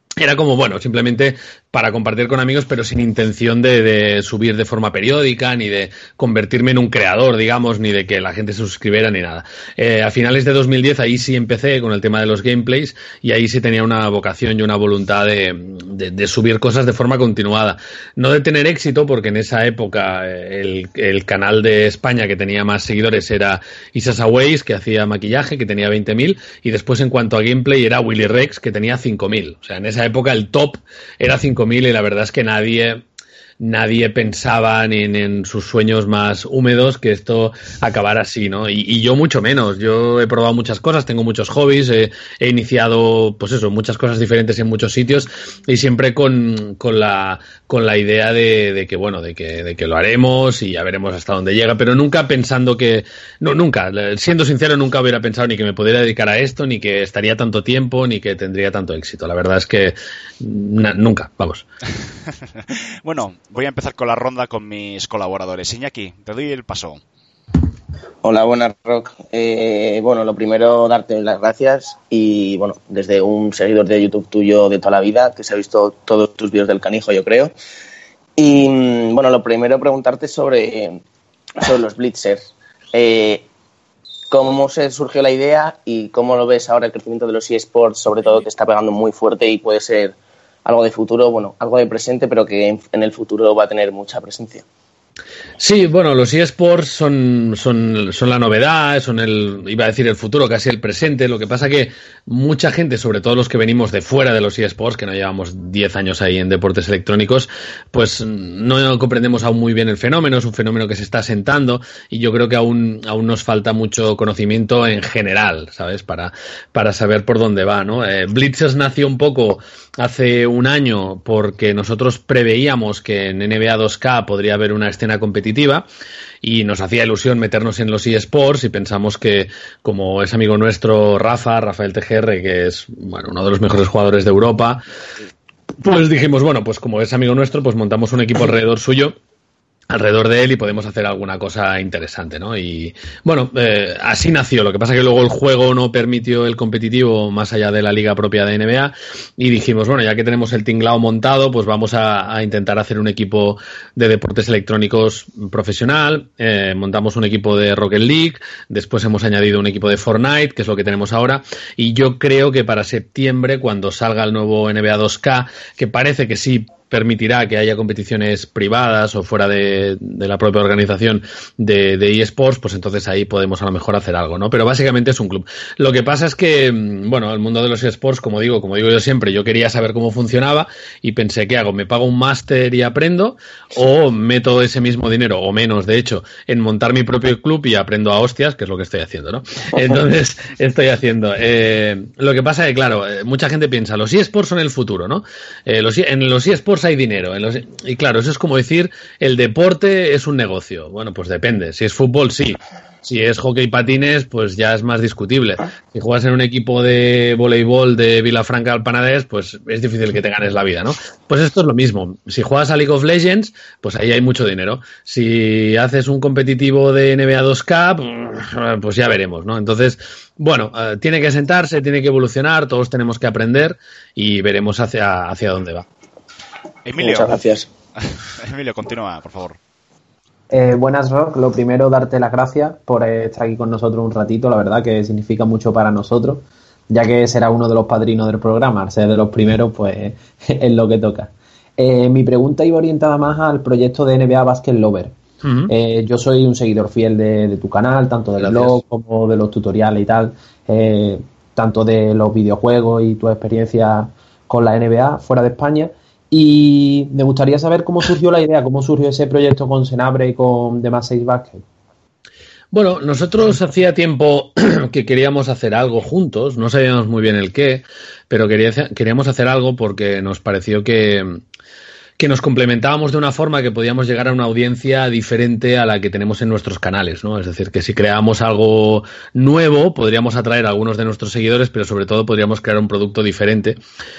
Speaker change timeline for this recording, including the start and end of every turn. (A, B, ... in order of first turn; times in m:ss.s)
0:00.2-0:33.0 A
0:33.6-1:01.6 A
1:02.6-1:07.0 B
1:08.2-1:17.5 C
1:18.4-1:21.0 C
1:21.6-1:23.5 C
1:24.3-1:34.6 C
1:35.6-2:05.9 A
2:06.4-2:14.9 A
2:15.8-2:19.2 A
2:19.9-3:45.9 A
3:46.8-3:47.4 B
3:47.0-3:47.7 C
3:48.0-3:49.6 B
3:50.5-4:05.2 D
4:05.4-4:05.7 A
4:05.7-4:21.6 D
4:22.7-4:31.4 A
4:32.2-4:43.8 A